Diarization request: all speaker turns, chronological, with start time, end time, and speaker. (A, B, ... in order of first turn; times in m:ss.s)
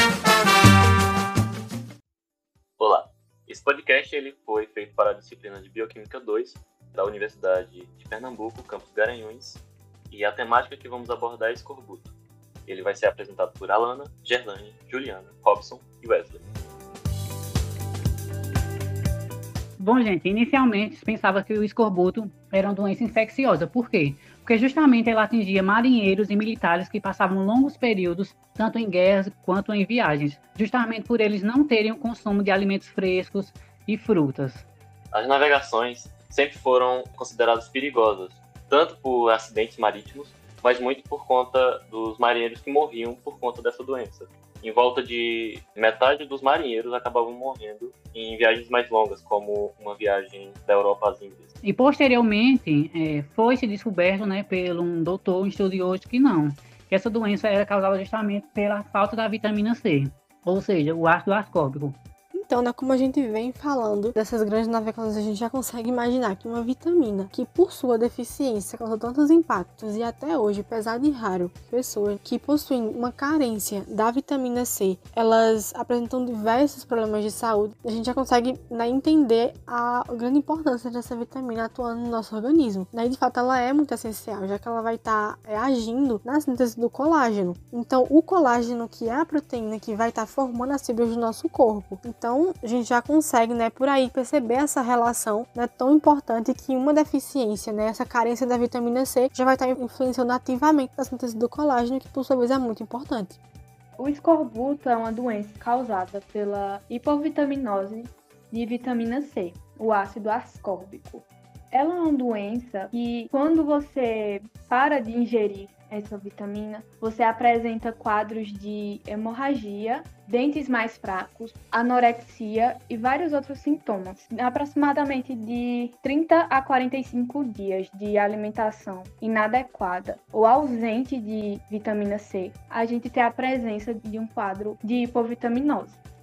0:02.8-0:12.1 A
0:12.7-0:16.4 A
0:19.8-0:34.7 B
0:35.1-0:51.5 A
0:51.6-1:02.0 B
1:02.3-1:43.4 C
1:44.0-2:16.0 D